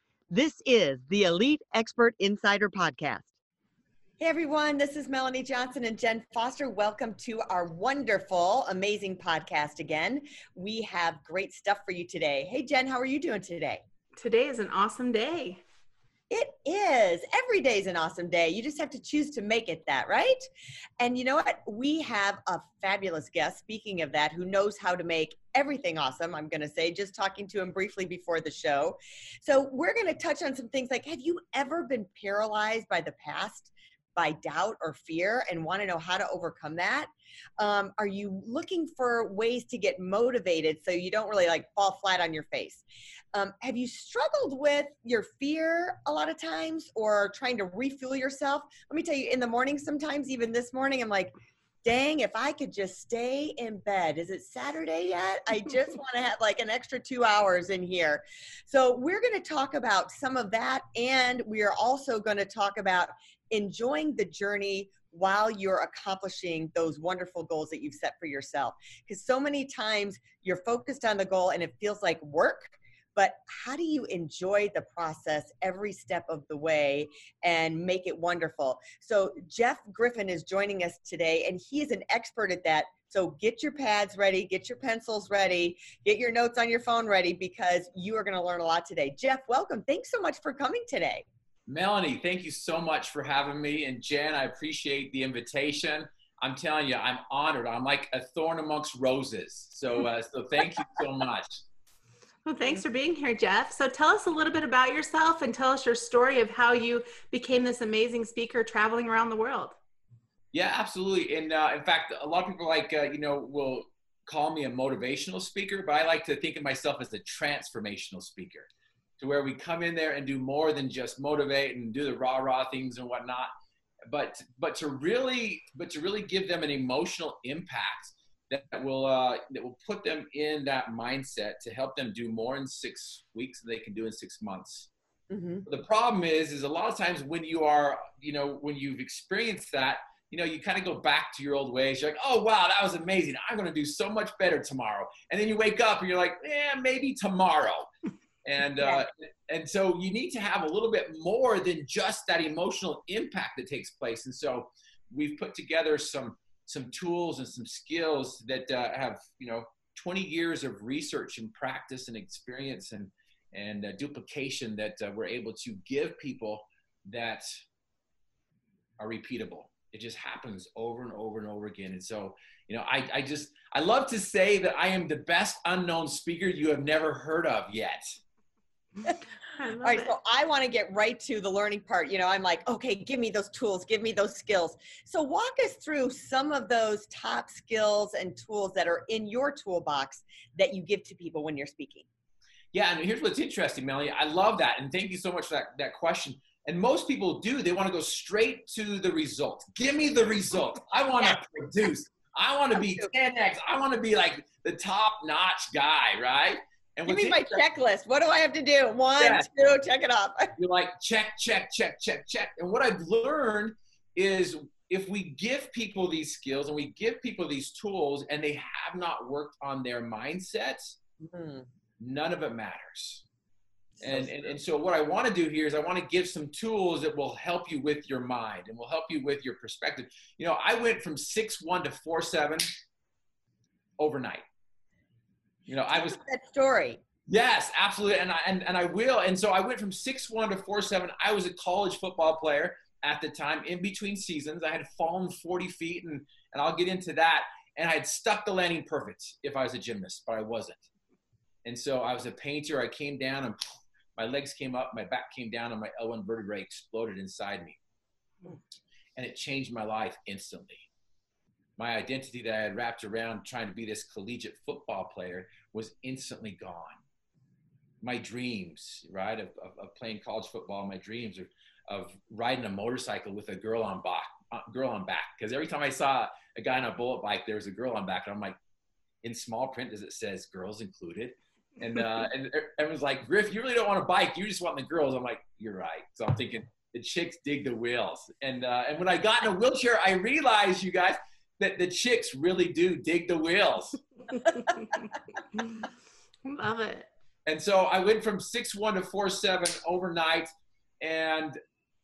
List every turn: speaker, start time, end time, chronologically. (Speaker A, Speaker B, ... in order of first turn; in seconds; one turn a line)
Speaker A: 0.3-3.3
Speaker A: 4.2-13.8
Speaker B: 14.2-15.6
Speaker A: 16.3-20.5
Speaker A: 21.0-42.8
Speaker A: 43.3-51.3
Speaker A: 51.8-91.3
Speaker C: 91.7-101.6
Speaker B: 102.5-109.8
Speaker C: 110.5-123.5
Speaker C: 124.1-134.9
Speaker A: 135.3-135.7
Speaker C: 135.7-147.9
Speaker C: 148.4-167.6
Speaker A: 148.8-149.0
Speaker C: 169.0-178.2
Speaker B: 179.6-180.1
Speaker A: 179.8-192.1
Speaker C: 192.7-207.6
Speaker A: 202.8-203.1
Speaker A: 207.1-210.5
Speaker C: 209.2-209.5
Speaker C: 210.6-221.0
Speaker A: 221.2-221.7
Speaker C: 222.0-223.2
Speaker A: 224.0-224.5
Speaker C: 224.0-232.7
Speaker C: 234.0-234.4
Speaker C: 235.7-236.2
Speaker A: 235.9-237.0
Speaker C: 237.3-250.9
Speaker C: 251.7-253.6
Speaker C: 254.2-257.8
Speaker C: 259.2-260.9
Speaker C: 261.8-267.0
Speaker C: 268.0-278.6
Speaker C: 279.2-294.0
Speaker B: 295.6-295.9
Speaker B: 296.4-297.1
Speaker C: 297.5-301.6